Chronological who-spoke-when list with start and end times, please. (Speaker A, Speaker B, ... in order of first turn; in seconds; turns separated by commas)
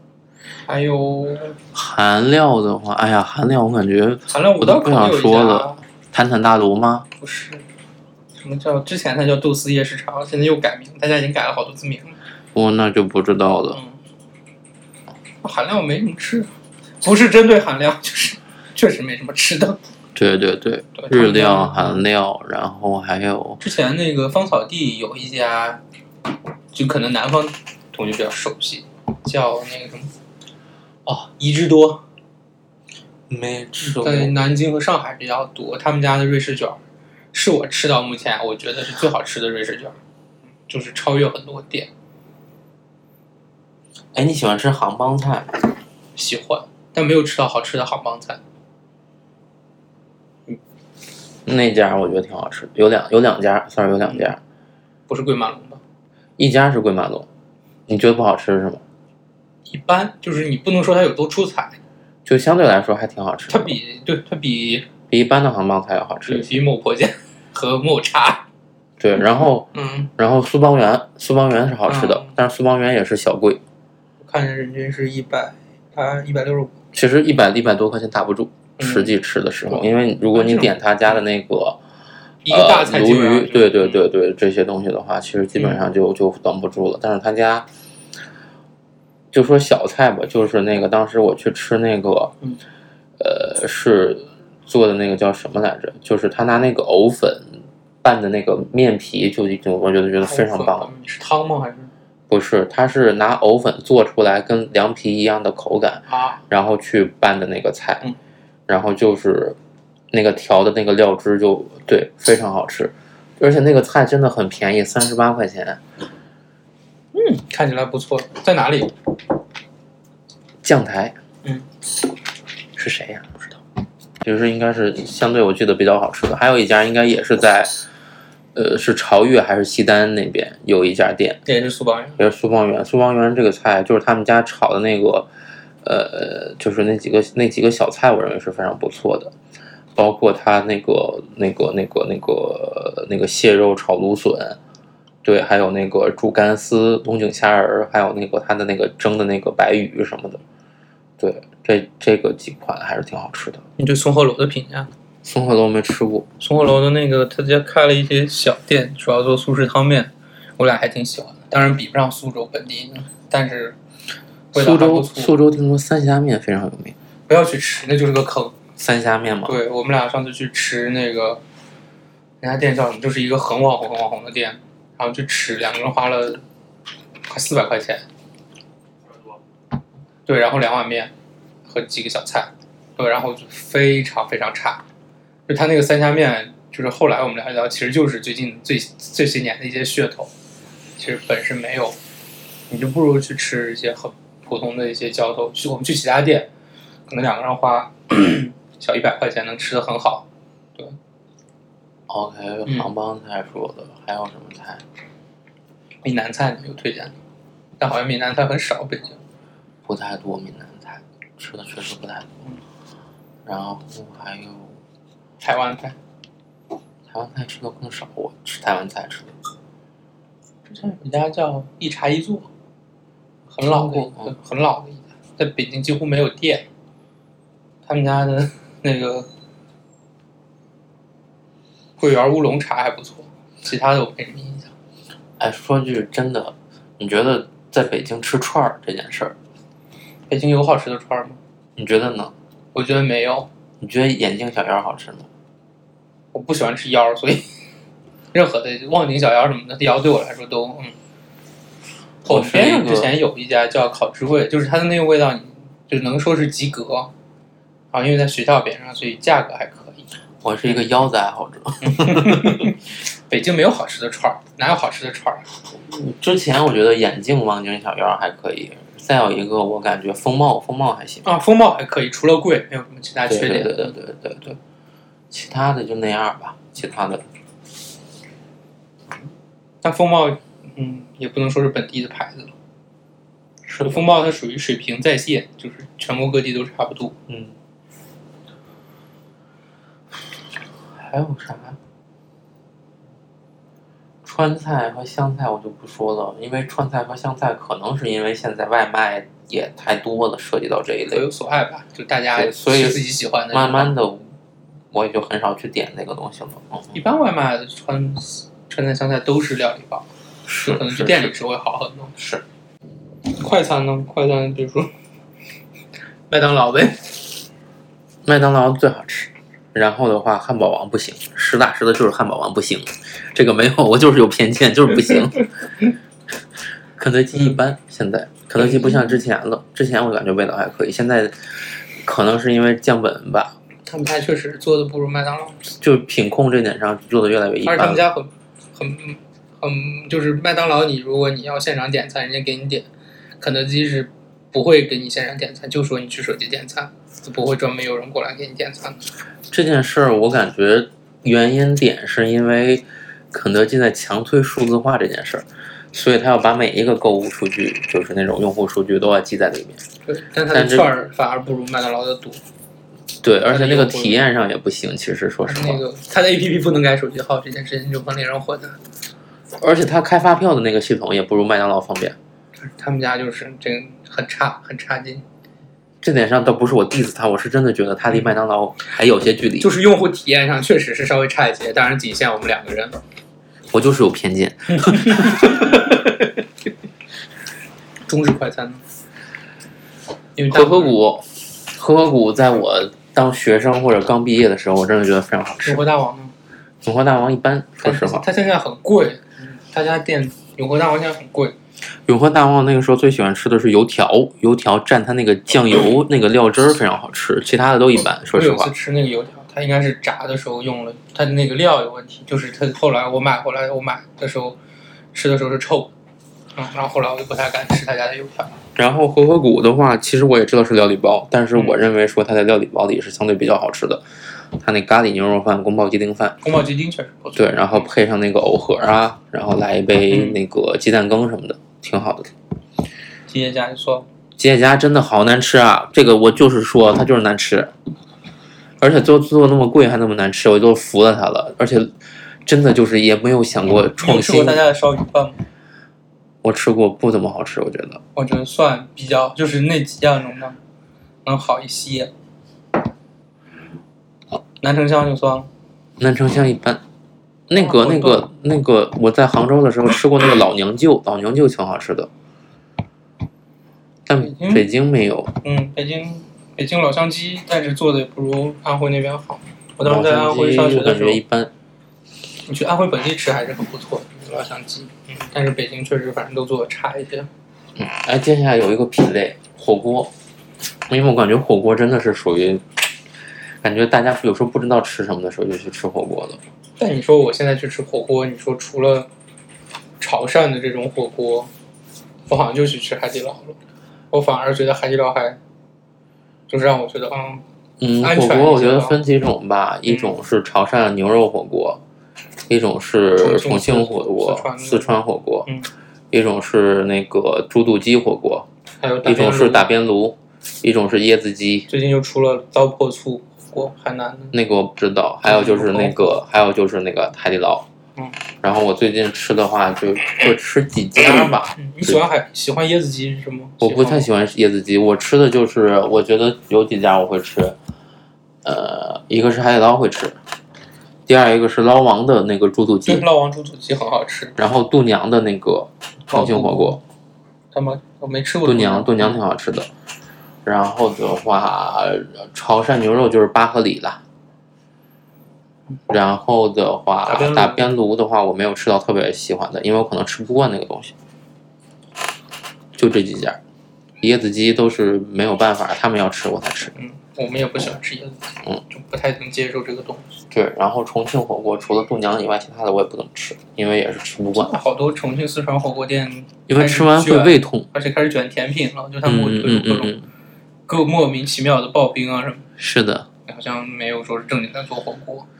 Speaker A: 0.7-1.6, Speaker B: 1.7-7.0, Speaker A: 4.3-5.8, Speaker A: 7.2-7.7, Speaker A: 8.4-12.2, Speaker B: 12.5-13.8, Speaker A: 13.7-14.0, Speaker A: 15.4-16.5, Speaker A: 17.0-19.8, Speaker B: 20.1-23.6, Speaker A: 21.0-22.0, Speaker A: 23.6-25.8, Speaker A: 26.7-30.1, Speaker A: 31.1-32.0, Speaker B: 33.3-34.3, Speaker A: 33.8-36.8, Speaker A: 37.3-40.0, Speaker A: 40.7-41.9, Speaker B: 44.1-45.6, Speaker A: 46.1-48.4, Speaker B: 51.5-54.4, Speaker A: 55.1-55.8, Speaker B: 56.4-57.3, Speaker B: 57.9-58.8, Speaker A: 59.7-61.8, Speaker B: 62.2-63.8, Speaker A: 63.5-64.9, Speaker B: 65.1-66.5, Speaker A: 66.2-68.4, Speaker B: 69.0-73.6, Speaker A: 69.7-70.1, Speaker A: 71.9-72.3, Speaker A: 74.2-76.7, Speaker B: 76.9-81.8, Speaker A: 78.8-79.1, Speaker A: 79.7-80.7, Speaker A: 82.4-84.0, Speaker B: 82.5-87.7, Speaker B: 89.3-92.3, Speaker B: 93.2-100.9, Speaker A: 100.3-101.9, Speaker B: 102.3-108.0, Speaker A: 106.1-106.4, Speaker B: 108.7-109.6, Speaker B: 110.1-115.8, Speaker A: 117.1-118.9, Speaker B: 120.6-121.2, Speaker B: 122.8-123.6, Speaker B: 124.2-127.7, Speaker B: 128.5-131.4, Speaker A: 131.4-132.2, Speaker B: 132.2-135.3, Speaker B: 135.8-139.3, Speaker B: 139.9-144.6, Speaker B: 145.2-150.4, Speaker B: 151.2-153.6, Speaker A: 153.8-154.9, Speaker B: 155.2-156.3, Speaker A: 156.4-163.8, Speaker A: 164.5-165.3, Speaker B: 164.5-166.9, Speaker A: 167.3-168.6, Speaker B: 168.8-169.5, Speaker A: 169.4-171.4, Speaker A: 172.4-176.4, Speaker A: 177.3-178.0, Speaker A: 180.3-181.1, Speaker A: 181.7-184.8, Speaker A: 185.5-190.3, Speaker A: 191.0-192.0, Speaker A: 192.7-196.5, Speaker A: 197.1-200.9, Speaker B: 202.1-204.8, Speaker A: 206.0-207.1, Speaker A: 207.8-209.2, Speaker B: 209.8-212.3, Speaker B: 213.4-214.7, Speaker A: 215.4-215.9, Speaker B: 217.1-219.3, Speaker A: 220.7-222.5, Speaker A: 223.5-226.7, Speaker B: 223.6-224.3, Speaker A: 227.8-229.3, Speaker A: 232.0-234.7, Speaker B: 235.4-239.3, Speaker A: 240.3-241.4, Speaker B: 241.8-242.3, Speaker A: 242.7-243.5, Speaker B: 243.8-245.3, Speaker A: 246.3-247.4, Speaker A: 248.3-250.9, Speaker B: 252.2-253.1, Speaker A: 252.3-257.1, Speaker A: 257.9-260.1, Speaker B: 260.4-262.7, Speaker A: 261.8-265.4, Speaker B: 265.8-271.3, Speaker A: 271.2-273.9, Speaker B: 273.3-274.6, Speaker B: 275.3-277.2, Speaker A: 279.8-282.5, Speaker B: 283.7-284.0, Speaker A: 283.8-287.1, Speaker B: 287.3-287.6, Speaker B: 290.9-291.8, Speaker B: 294.2-301.2, Speaker A: 301.1-303.9, Speaker B: 302.3-304.2, Speaker B: 304.9-306.9, Speaker A: 306.9-310.1, Speaker B: 310.5-311.3, Speaker A: 310.6-312.1, Speaker B: 312.2-312.4, Speaker A: 313.3-314.9, Speaker A: 316.3-317.1, Speaker B: 318.2-325.5, Speaker B: 327.0-331.3, Speaker A: 328.6-329.0, Speaker B: 332.0-333.5, Speaker A: 333.9-335.7, Speaker B: 335.8-338.0, Speaker A: 337.6-342.9, Speaker A: 343.4-349.0, Speaker B: 349.5-359.8, Speaker A: 360.1-362.4, Speaker B: 360.5-360.9, Speaker B: 363.2-365.8, Speaker A: 363.5-364.2, Speaker A: 365.4-368.8, Speaker B: 369.6-372.2, Speaker A: 372.6-375.2, Speaker B: 376.0-379.7, Speaker A: 379.6-383.0, Speaker B: 383.7-385.9, Speaker A: 384.7-386.0, Speaker A: 388.1-388.8, Speaker A: 390.4-390.9, Speaker B: 390.5-395.8, Speaker A: 395.6-396.3, Speaker B: 396.8-398.2, Speaker A: 397.8-401.5, Speaker B: 402.1-408.7, Speaker A: 408.3-414.6, Speaker A: 415.1-415.9, Speaker A: 416.6-418.5, Speaker B: 418.8-424.0, Speaker A: 421.5-421.8, Speaker B: 424.6-426.4, Speaker A: 426.4-427.9, Speaker B: 427.4-432.3, Speaker A: 430.1-430.4, Speaker A: 433.3-434.1, Speaker B: 434.4-437.7, Speaker B: 438.8-441.9, Speaker B: 442.4-444.6, Speaker A: 444.0-445.4, Speaker B: 446.4-448.0, Speaker A: 448.1-450.6, Speaker A: 451.2-452.1, Speaker A: 454.6-455.5, Speaker B: 456.0-456.8, Speaker B: 457.5-462.1, Speaker A: 457.5-458.3, Speaker B: 464.1-465.3, Speaker A: 464.2-464.7, Speaker A: 465.4-471.2, Speaker B: 469.8-471.5, Speaker A: 472.5-477.3, Speaker B: 477.8-480.1, Speaker B: 480.9-482.6, Speaker B: 483.6-486.4, Speaker A: 486.8-489.1, Speaker A: 490.0-491.5, Speaker A: 492.3-493.6, Speaker A: 494.1-495.4, Speaker A: 496.5-497.4, Speaker B: 497.8-501.8, Speaker A: 498.0-499.0, Speaker A: 499.9-500.1, Speaker B: 502.5-505.5, Speaker A: 503.2-505.7, Speaker B: 506.1-508.5, Speaker A: 508.8-509.6, Speaker B: 509.0-511.7, Speaker A: 511.7-514.3, Speaker B: 514.3-517.7, Speaker A: 515.2-516.2, Speaker B: 518.4-522.0, Speaker A: 521.5-524.1, Speaker B: 523.6-527.5, Speaker B: 528.4-530.2, Speaker B: 531.1-533.0, Speaker A: 532.9-534.4, Speaker B: 534.4-536.8, Speaker A: 536.1-536.8, Speaker A: 537.5-539.2, Speaker B: 538.4-539.7, Speaker B: 540.4-544.0, Speaker B: 545.9-550.9, Speaker A: 547.0-547.7, Speaker B: 552.8-553.4, Speaker B: 554.0-556.7, Speaker A: 556.7-560.1, Speaker B: 560.3-564.5, Speaker A: 564.4-570.0, Speaker B: 566.5-567.7, Speaker B: 569.0-570.0, Speaker A: 570.7-572.5, Speaker B: 572.6-573.1, Speaker A: 573.3-575.3